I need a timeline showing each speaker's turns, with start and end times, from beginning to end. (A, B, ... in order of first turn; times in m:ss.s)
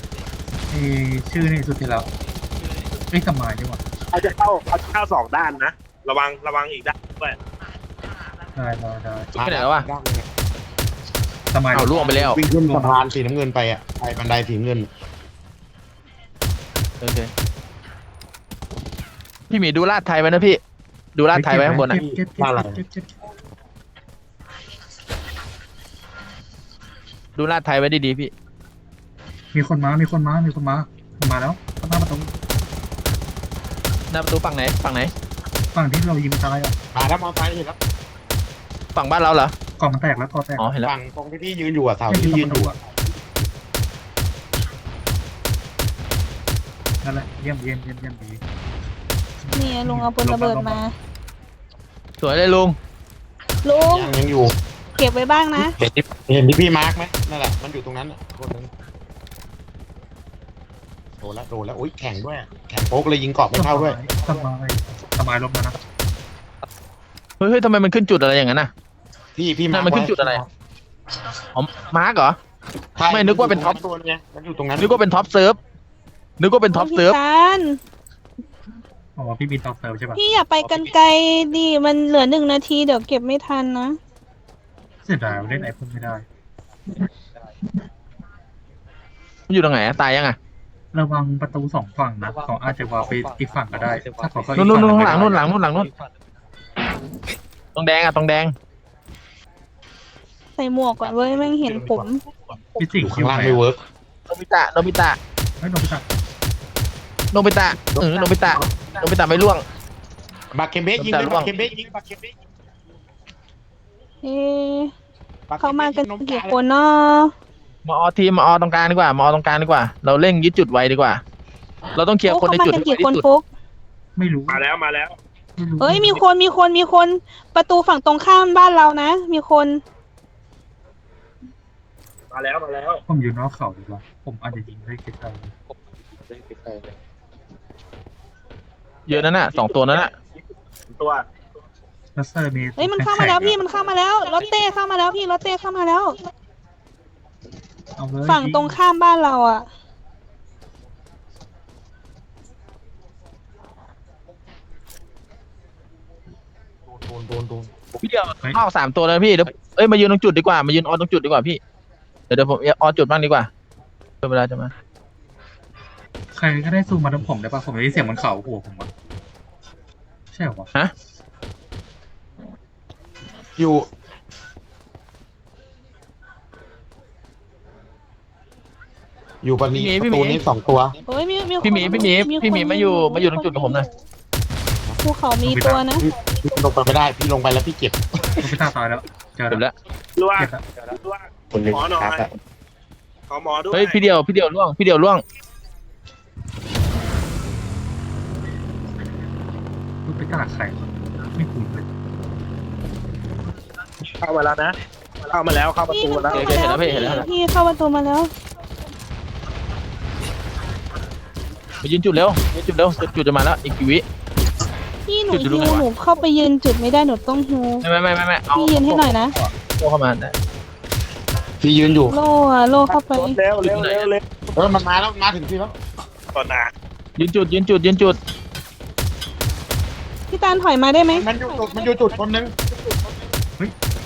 0:00.7-0:02.1 A
0:03.1-0:03.8 A
0:04.1-0:07.4 B
0:08.6-0:09.3 A
0:09.3-0:10.3 C
0:09.4-0:09.8 D
0:11.5-0:12.1 A
0:11.7-0:12.4 D
0:11.9-0:14.9 C
0:12.6-0:13.0 A
0:17.0-0:17.3 D
0:19.5-0:20.6 D
0:21.1-0:22.0 D
0:21.3-0:23.1 A
0:21.8-0:22.8 C
0:27.4-0:28.3 D
0:29.5-0:32.3 A
0:34.1-0:35.1 D
0:35.7-0:36.7 A
0:36.9-0:37.8 C
0:38.9-0:39.5 D
0:39.8-0:40.7 A
0:40.6-0:40.9 D
0:40.8-0:42.8 C
0:42.1-0:42.8 A
0:47.0-0:48.4 A
0:49.4-0:50.8 A
0:49.6-0:50.9 E
0:52.2-0:52.8 D
0:53.6-0:54.1 E
0:53.8-0:54.5 C
0:55.0-0:55.8 E
0:55.6-0:58.7 C
1:01.2-1:04.4 C
1:03.5-1:05.8 A
1:07.4-1:08.7 D
1:09.3-1:10.5 C
1:09.7-1:10.4 D
1:11.5-1:12.4 D
1:13.0-1:15.2 C
1:13.1-1:13.8 D
1:14.8-1:15.6 D
1:16.4-1:17.2 D
1:16.7-1:17.8 E
1:19.2-1:20.2 A
1:20.1-1:24.0 E
1:25.0-1:26.2 A
1:29.5-1:30.4 D
1:30.9-1:35.5 A
1:34.6-1:35.9 D
1:37.7-1:38.5 D
1:40.6-1:42.2 E
1:40.9-1:42.1 C
1:42.8-1:43.6 A
1:43.0-1:43.8 C
1:44.3-1:45.2 D
1:45.6-1:46.1 A
1:47.3-1:49.6 D
1:50.5-1:52.3 C
1:51.0-1:51.5 D
1:54.2-1:54.9 E
1:55.5-1:56.6 C
1:55.6-1:57.3 E
1:57.8-2:01.2 D
2:02.0-2:03.2 D
2:02.2-2:03.5 E
2:04.2-2:04.6 A
2:04.5-2:05.2 B
2:05.6-2:06.2 A
2:05.8-2:09.8 E
2:12.3-2:13.0 B
2:13.1-2:15.5 A
2:19.1-2:20.1 D
2:20.9-2:21.2 B
2:22.1-2:23.6 A
2:22.8-2:26.2 E
2:28.0-2:28.8 A
2:28.3-2:29.7 E
2:36.8-2:37.7 C
2:37.9-2:41.6 D
2:42.3-2:43.5 D
2:44.2-2:44.7 D
2:46.3-2:48.9 A
2:46.9-2:47.2 C
2:50.3-2:50.7 A
2:53.6-2:53.9 C
2:59.4-3:01.0 C
2:59.7-3:00.4 D
3:01.1-3:03.9 E
3:01.6-3:03.9 D
3:05.0-3:06.0 E
3:05.4-3:05.9 A
3:06.0-3:08.5 C
3:08.4-3:09.6 A
3:10.2-3:12.3 B
3:10.4-3:10.6 A
3:11.5-3:12.3 C
3:13.3-3:14.0 B
3:13.7-3:15.2 D
3:20.0-3:21.9 A
3:24.2-3:27.1 B
3:25.9-3:28.3 E
3:26.3-3:27.3 D
3:31.8-3:34.0 D
3:35.1-3:37.8 E
3:35.3-3:35.9 D
3:37.8-3:40.3 D
3:38.5-3:39.3 E
3:41.6-3:42.2 C
3:42.1-3:43.4 E
3:42.9-3:44.2 B
3:43.6-3:44.1 D
3:44.6-3:45.7 C
3:46.3-3:46.7 B
3:47.2-3:48.2 D
3:50.3-3:51.9 E
3:51.1-3:52.5 C